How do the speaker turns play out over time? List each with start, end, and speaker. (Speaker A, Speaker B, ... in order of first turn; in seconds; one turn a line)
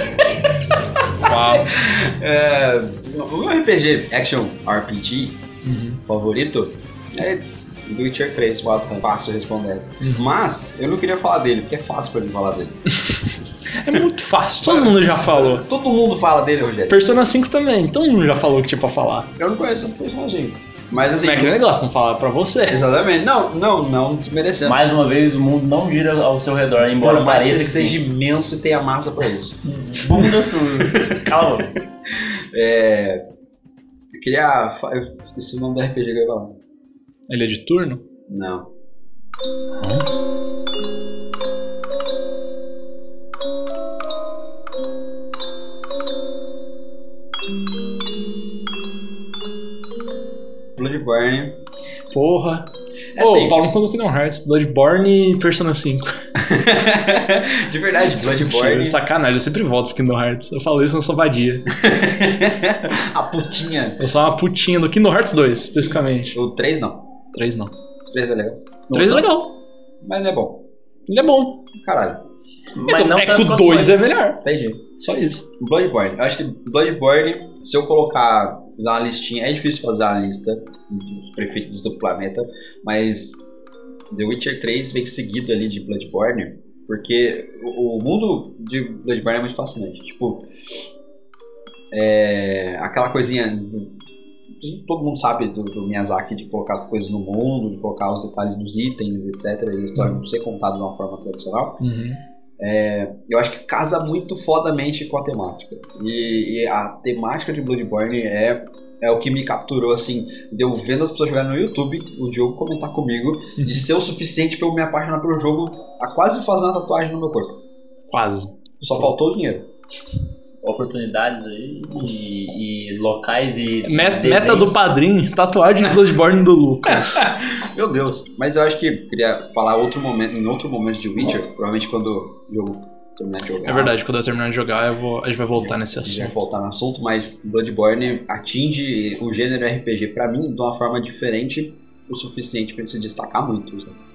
Speaker A: 1.2-1.7
Speaker B: 1.2-5.4
Speaker A: 5.6-6.0
Speaker B: 6.1-12.8
Speaker A: 13.0-15.7
Speaker B: 14.6-17.1
Speaker A: 16.9-19.3
Speaker B: 19.4-21.6
Speaker A: 21.2-22.9
Speaker B: 22.7-24.8
Speaker C: 24.6-28.0
Speaker B: 26.9-31.3
Speaker C: 29.7-31.8
Speaker B: 32.1-33.3
Speaker B: 34.1-36.6
Speaker A: 37.3-38.0
Speaker B: 38.3-38.7
Speaker B: 50.8-51.6
Speaker A: 52.1-56.2
Speaker B: 53.2-53.6
Speaker B: 56.4-59.0
Speaker A: 58.4-61.7
Speaker B: 61.7-64.0
Speaker A: 64.0-66.4
Speaker B: 66.2-67.1
Speaker A: 67.3-67.7
Speaker B: 68.1-68.7
Speaker C: 68.9-69.3
Speaker A: 68.9-69.6
Speaker B: 70.0-70.7
Speaker A: 71.1-71.7
Speaker B: 71.8-72.2
Speaker C: 72.8-74.1
Speaker A: 72.9-74.5
Speaker B: 74.4-74.9
Speaker A: 75.0-75.5
Speaker B: 75.6-83.4
Speaker B: 84.1-90.5
Speaker B: 91.9-94.0
Speaker B: 94.6-101.8
Speaker A: 101.8-102.2
Speaker B: 102.6-117.6
Speaker A: 113.6-113.8
Speaker A: 118.1-118.5
Speaker B: 118.8-119.7
Speaker C: 120.6-124.8
Speaker A: 123.9-127.3
Speaker B: 126.8-133.9
Speaker A: 133.7-136.4
Speaker B: 135.6-144.0